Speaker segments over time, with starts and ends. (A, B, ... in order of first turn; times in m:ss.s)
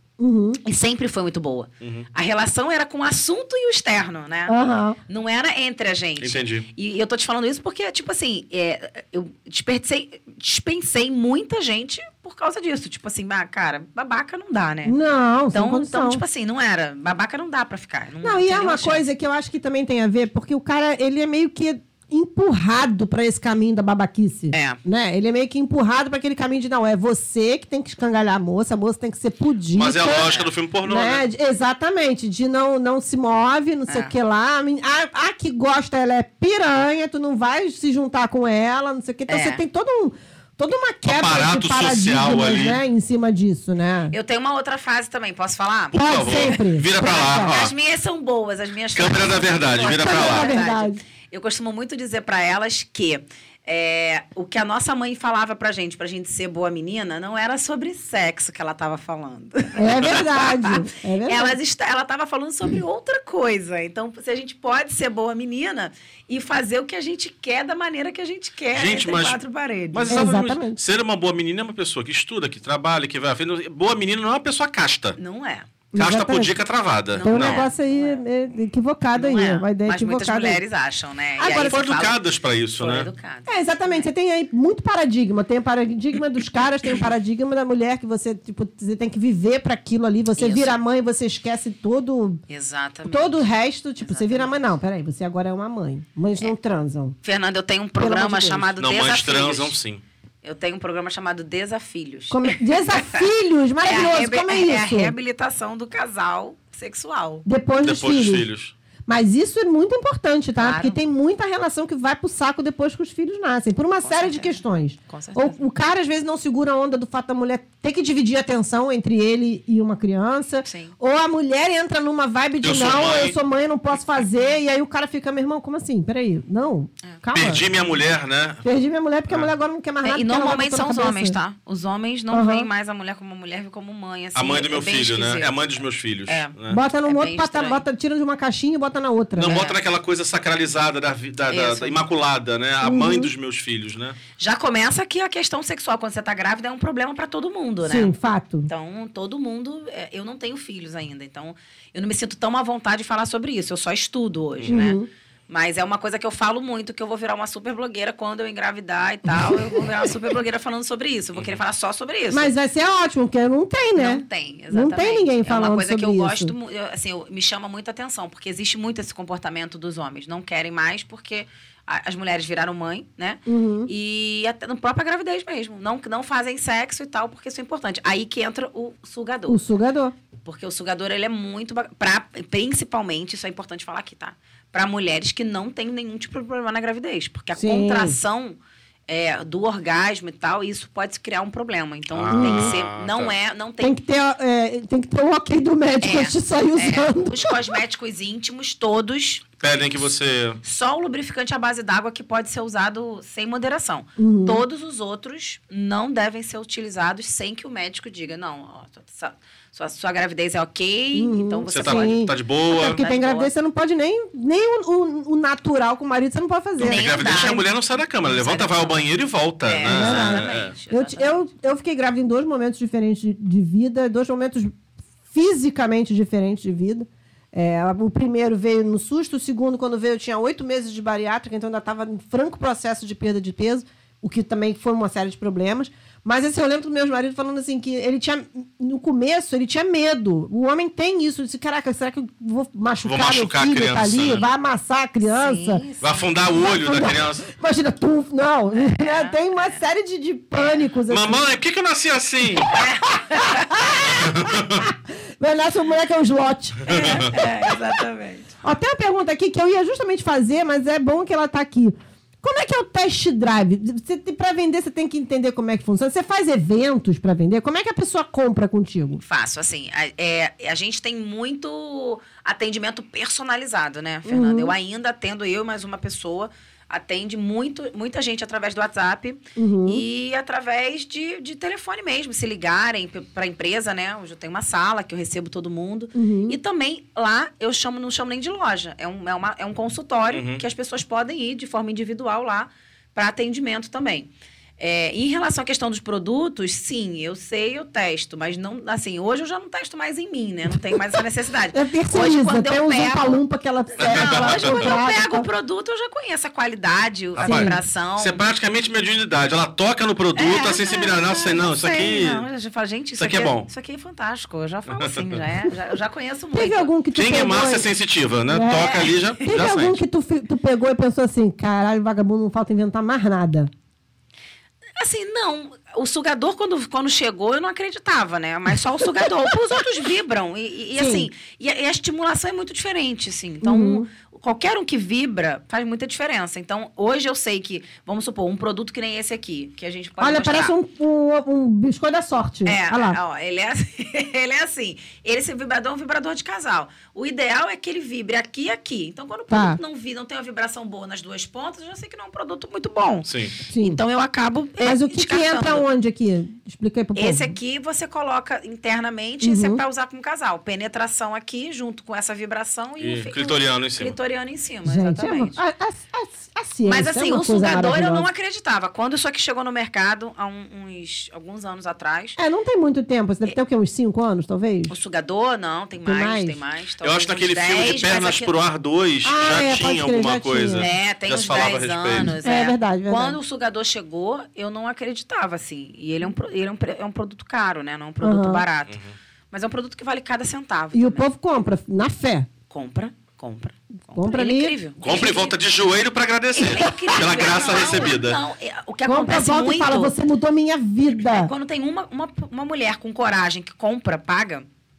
0:00.2-0:00.6 A
0:00.6-0:04.5 B
0:01.8-0:02.1 C
0:04.5-0:05.0 A
0:05.1-0:15.0 B
0:06.2-0:06.7 C
0:14.8-0:16.2 A
0:15.5-0:19.0 B
0:18.2-0:30.3 A
0:24.5-0:24.8 B
0:29.7-0:31.2 C
0:30.1-0:30.5 B
0:30.8-0:44.1 A
0:39.3-0:39.6 B
0:41.0-0:42.8 C
0:44.1-1:10.2 B
0:45.9-0:47.7 C
0:45.9-0:47.6 A
0:48.9-0:50.5 C
0:49.8-0:51.0 A
0:59.8-1:01.6 A
1:08.7-1:09.4 C
1:09.9-1:15.2 C
1:10.1-1:10.8 A
1:15.2-1:15.7 B
1:15.9-1:16.6 A
1:15.9-1:17.6 C
1:17.1-1:18.2 B
1:17.2-1:20.6 A
1:19.1-1:22.2 B
1:21.4-1:21.7 A
1:21.5-1:23.1 C
1:22.8-1:24.1 B
1:23.5-1:32.4 A
1:30.4-1:30.8 B
1:32.5-1:33.4 B
1:33.0-1:37.2 A
1:34.0-1:34.6 B
1:37.2-1:39.7 B
1:38.0-1:38.7 A
1:38.8-1:40.0 C
1:40.4-1:43.2 B
1:42.3-1:45.1 A
1:43.8-1:47.4 B
1:47.4-1:48.4 A
1:47.8-1:48.7 C
1:49.1-2:07.6 A
1:50.6-1:51.0 B
1:54.0-1:55.7 B
2:00.6-2:00.9 B
2:02.6-2:03.4 C
2:07.3-2:08.6 C
2:08.6-2:11.4 A
2:10.0-2:15.6 B
2:12.3-2:12.7 A
2:14.3-2:16.8 C
2:16.3-2:16.5 B
2:16.7-2:19.6 A
2:17.0-2:17.8 B
2:19.4-2:24.2 C
2:19.5-2:19.8 B
2:21.5-2:22.0 B
2:22.8-2:23.3 A
2:24.4-2:28.1 B
2:27.8-2:28.7 A
2:28.7-2:35.0 B
2:34.7-2:35.1 A
2:35.5-2:42.5 B
2:39.3-2:40.1 A
2:42.3-2:46.5 A
2:44.0-2:59.6 B
2:53.5-2:53.9 A
2:59.5-3:00.1 A
3:00.4-3:08.6 B
3:07.5-3:08.2 A
3:09.1-3:13.9 B
3:12.1-3:13.3 C
3:12.3-3:12.7 A
3:13.8-3:17.8 A
3:16.0-3:19.5 B
3:19.6-3:20.6 C
3:20.6-3:33.5 B
3:24.2-3:24.6 A
3:31.1-3:37.6 A
3:31.7-3:33.0 C
3:36.8-3:40.7 C
3:36.8-3:37.6 B
3:38.2-3:39.0 B
3:39.6-3:41.5 B
3:39.9-3:44.8 A
3:45.3-4:05.8 A
4:03.0-4:04.4 C
4:05.2-4:06.3 B
4:06.0-4:07.5 C
4:06.5-4:11.4 A
4:08.8-4:09.8 B
4:11.1-4:12.7 C
4:12.7-4:13.8 B
4:13.3-4:17.4 A
4:14.2-4:14.8 C
4:16.9-4:18.5 B
4:16.9-4:17.1 C
4:18.6-4:29.2 A
4:29.2-5:03.4 B
4:34.2-4:34.7 A
4:39.6-4:40.0 A
4:46.1-4:46.6 A
4:50.3-4:50.6 C
5:01.7-5:05.5 A
5:04.0-5:08.4 B
5:04.0-5:04.9 C
5:07.4-5:12.4 C
5:07.4-5:07.8 A
5:10.4-5:16.9 B
5:13.2-5:13.7 C
5:14.9-5:15.4 C
5:16.5-5:17.9 A
5:17.1-5:20.0 C
5:18.5-5:23.7 A
5:25.0-5:40.7 B
5:31.0-5:31.3 A
5:33.6-5:34.1 A
5:40.2-5:43.2 A
5:42.6-5:55.8 B
5:49.5-5:49.8 A
5:53.2-5:53.5 C
5:53.7-5:54.0 A
5:54.8-5:57.5 A
5:57.1-6:05.6 B
5:59.4-5:59.8 A
6:03.0-6:04.2 C
6:04.8-6:08.3 A
6:06.8-6:12.4 B
6:12.4-6:14.9 A
6:14.9-6:18.5 B
6:16.0-6:16.6 A
6:17.0-6:22.3 C
6:19.2-6:20.8 A
6:20.8-6:29.0 B
6:22.4-6:23.4 A
6:28.2-6:28.6 A
6:28.9-6:29.1 C
6:29.5-6:31.3 B
6:30.9-6:32.5 A
6:32.7-6:35.5 B
6:34.1-6:34.7 A
6:35.0-6:38.4 C
6:36.5-6:40.1 B
6:39.1-6:41.5 A
6:41.2-6:44.7 B